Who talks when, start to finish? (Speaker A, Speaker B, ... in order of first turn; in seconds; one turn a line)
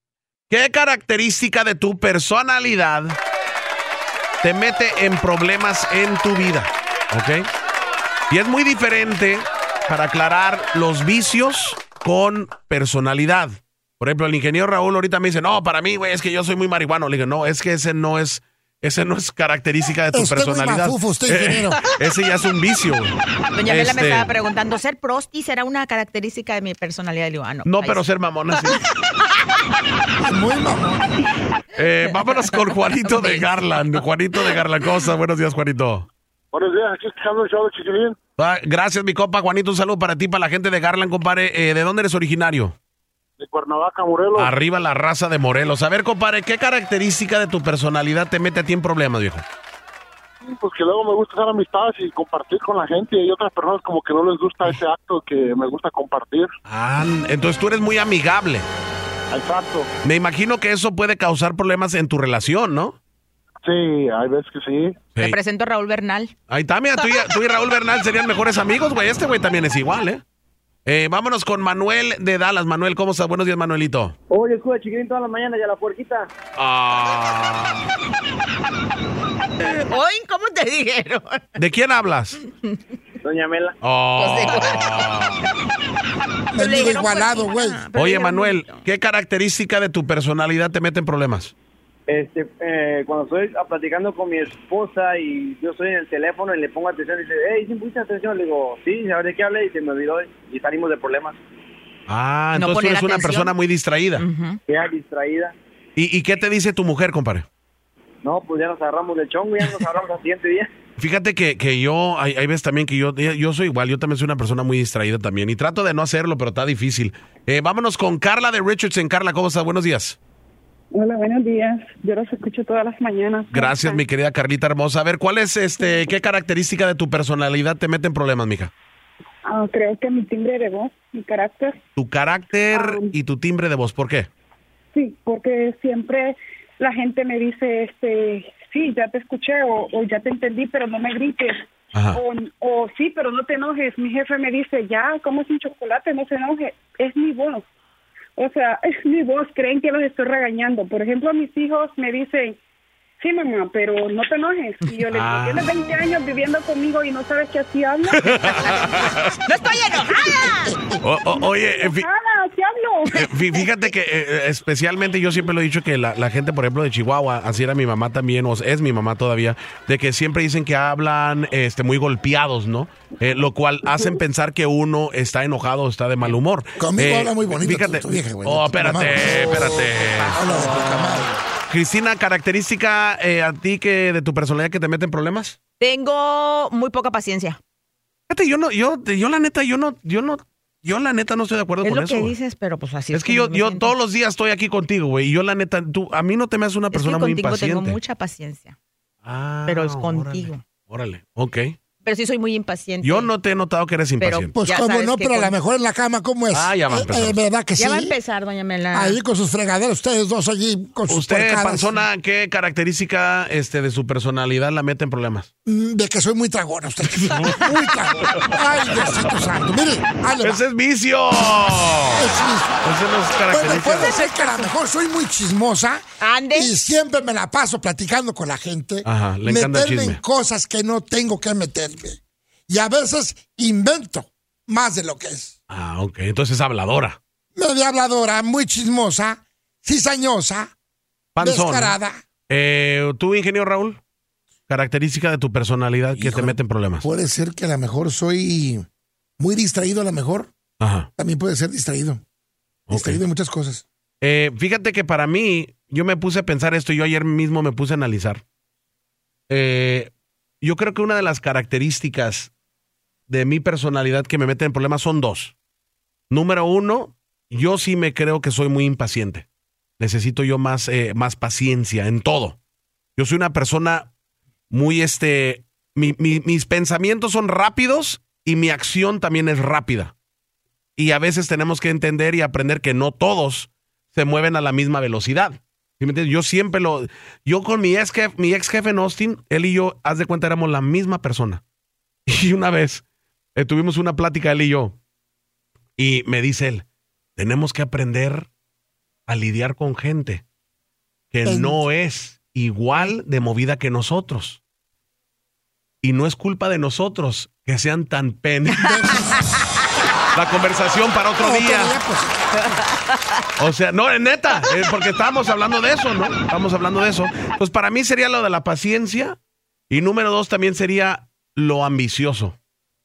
Speaker A: 0.5-3.2
Speaker A: 4.4-7.5
Speaker A: 8.3-23.1
Speaker B: 20.1-21.8
Speaker C: 23.5-28.0
Speaker A: 23.7-24.3
Speaker A: 27.6-28.9
Speaker B: 30.2-31.0
Speaker A: 31.7-36.1
Speaker C: 32.5-34.0
Speaker D: 36.5-38.2
Speaker A: 38.4-42.8
Speaker D: 43.4-44.5
Speaker A: 44.4-49.5
Speaker D: 50.4-56.5
Speaker A: 56.7-58.7
Speaker D: 59.3-59.9
Speaker A: 60.0-63.0
Speaker D: 63.6-65.0
Speaker C: 65.2-66.3
Speaker A: 66.5-70.2
Speaker A: 70.9-74.1
Speaker E: 74.3-76.3
Speaker A: 76.6-77.9
Speaker C: 79.6-81.6
Speaker A: 81.6-82.4
Speaker E: 83.2-83.8
Speaker A: 83.8-85.5
Speaker C: 84.2-85.1
Speaker B: 86.5-87.8
Speaker C: 86.5-88.8
Speaker A: 88.0-91.5
Speaker E: 92.1-101.4
Speaker A: 102.1-104.2
Speaker C: 102.5-103.5
Speaker C: 104.2-104.6
Speaker E: 104.7-105.5
Speaker A: 106.0-107.5
Speaker E: 108.2-110.7
Speaker A: 111.0-120.2
Speaker F: 120.9-124.0
Speaker A: 123.5-128.7
Speaker F: 129.5-131.8
Speaker A: 132.0-134.3
Speaker F: 132.7-133.1
Speaker F: 134.9-147.7
Speaker A: 141.9-142.2
Speaker F: 148.4-152.6
Speaker F: 153.2-158.6
Speaker A: 155.1-155.7
Speaker A: 158.2-159.4
Speaker C: 158.8-160.8
Speaker B: 160.4-160.9
Speaker A: 161.0-162.1
Speaker F: 161.4-163.6
Speaker A: 163.1-180.4
Speaker B: 176.8-181.3
Speaker A: 181.7-185.6
Speaker C: 185.8-187.6
Speaker A: 188.3-192.3
Speaker C: 191.8-193.9
Speaker A: 193.1-198.0
Speaker C: 196.9-198.8
Speaker A: 199.2-201.8
Speaker C: 199.7-200.6
Speaker C: 202.0-203.3
Speaker A: 203.0-204.5
Speaker C: 204.2-205.6
Speaker B: 204.5-208.2
Speaker A: 206.5-207.4
Speaker C: 207.8-209.2
Speaker B: 208.9-212.0
Speaker A: 211.1-215.5
Speaker B: 215.7-220.6
Speaker A: 217.1-218.5
Speaker A: 220.4-224.1
Speaker B: 222.0-222.8
Speaker B: 223.5-235.6
Speaker C: 223.8-224.7
Speaker C: 226.2-226.7
Speaker A: 229.0-230.2
Speaker A: 235.7-237.2
Speaker B: 237.6-240.7
Speaker A: 241.3-242.0
Speaker B: 241.4-242.2
Speaker A: 242.5-244.0
Speaker A: 244.7-247.1
Speaker B: 246.2-248.8
Speaker B: 249.4-250.5
Speaker A: 250.8-251.1
Speaker B: 251.2-252.2
Speaker A: 252.9-253.2
Speaker B: 252.9-253.8
Speaker A: 254.2-258.4
Speaker A: 259.5-262.5
Speaker A: 263.3-265.6
Speaker A: 266.3-269.5
Speaker A: 270.0-272.6
Speaker A: 273.2-274.1
Speaker A: 274.7-280.1
Speaker A: 281.0-291.6
Speaker A: 292.3-293.1
Speaker A: 293.6-295.0
Speaker A: 296.0-298.5
Speaker A: 299.3-300.4
Speaker A: 301.3-304.6
Speaker B: 301.4-301.8
Speaker A: 306.0-309.2
Speaker B: 308.7-309.8
Speaker A: 310.3-312.0
Speaker B: 311.4-312.8
Speaker A: 313.6-319.4
Speaker A: 319.9-322.6